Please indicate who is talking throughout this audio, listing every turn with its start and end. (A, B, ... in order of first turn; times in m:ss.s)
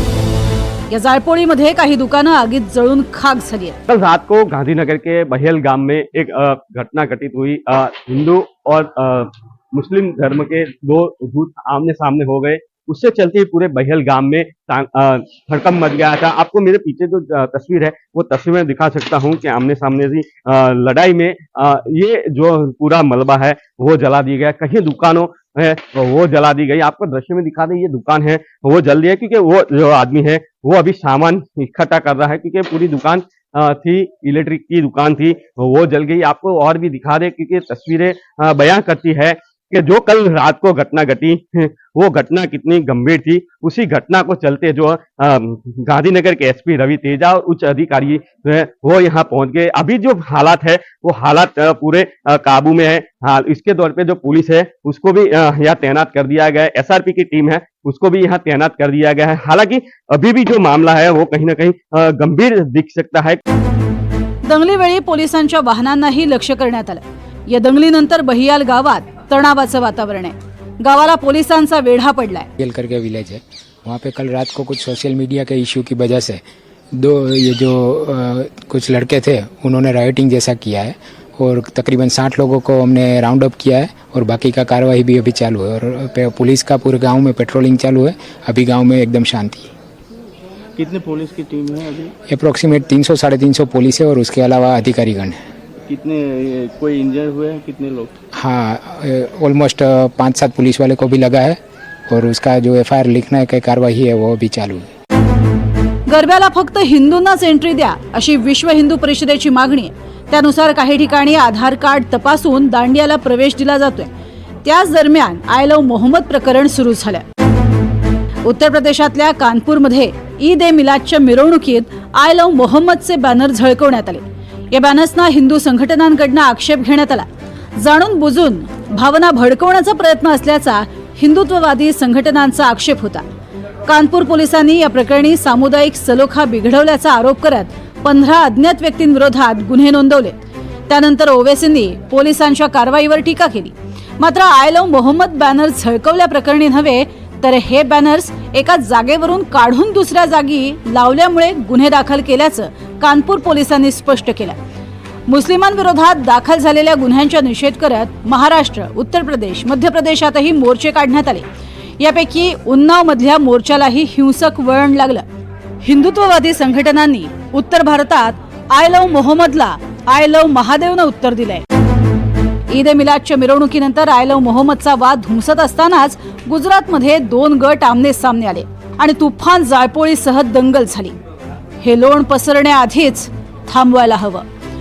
0:00.9-0:03.8 A
0:03.9-1:03.4 B
1:04.4-1:12.5 A
1:12.6-1:16.4 C
1:16.9-1:29.7 C
1:30.8-1:32.1 D
1:32.3-1:35.4 C
1:35.8-1:38.1 D
1:38.4-1:41.6 C
1:42.1-1:44.9 C
1:46.1-1:54.1 A
1:54.6-1:57.2 A
1:58.4-2:13.2 A
2:13.9-2:20.4 A
2:20.9-2:34.6 A
2:35.3-2:41.5 A
2:42.0-2:45.2 A
2:45.8-2:51.6 A
2:52.7-3:01.2 A
3:01.8-3:04.4 A